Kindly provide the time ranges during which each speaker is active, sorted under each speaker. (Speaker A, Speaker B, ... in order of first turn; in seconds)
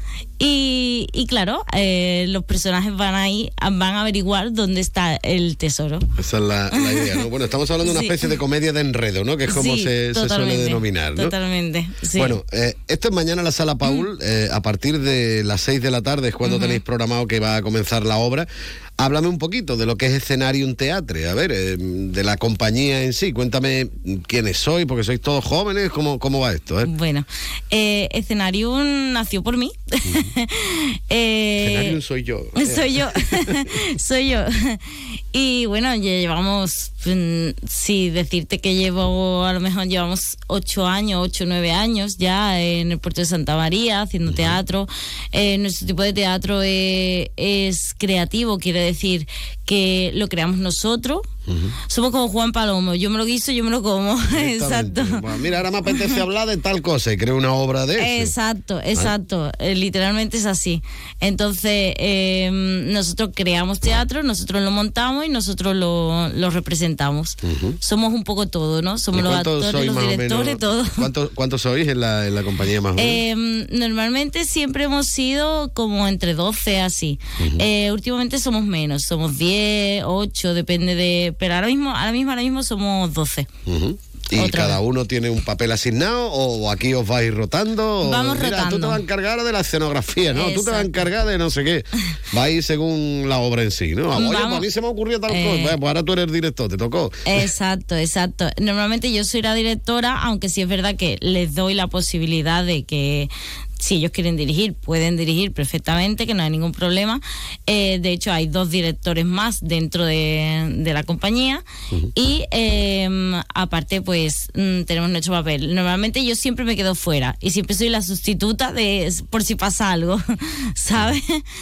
Speaker A: 0.4-6.1, 6.8-7.2, 7.8-8.3, 9.5-12.4, 16.4-16.8, 26.9-32.0, 32.6-34.8, 35.3-51.3, 51.9-55.2, 58.0-71.1, 73.0-83.5, 84.4-84.8, 88.0-89.0, 90.3-90.9, 94.1-94.7, 95.3-95.8, 97.3-103.3, 103.8-111.6, 112.2-120.2, 120.8-121.4
Speaker B: 6.2-11.3, 12.2-26.9, 31.6-33.6, 44.3-44.6, 51.5-51.8, 54.3-58.3, 67.4-67.8, 69.1-73.2, 83.7-97.2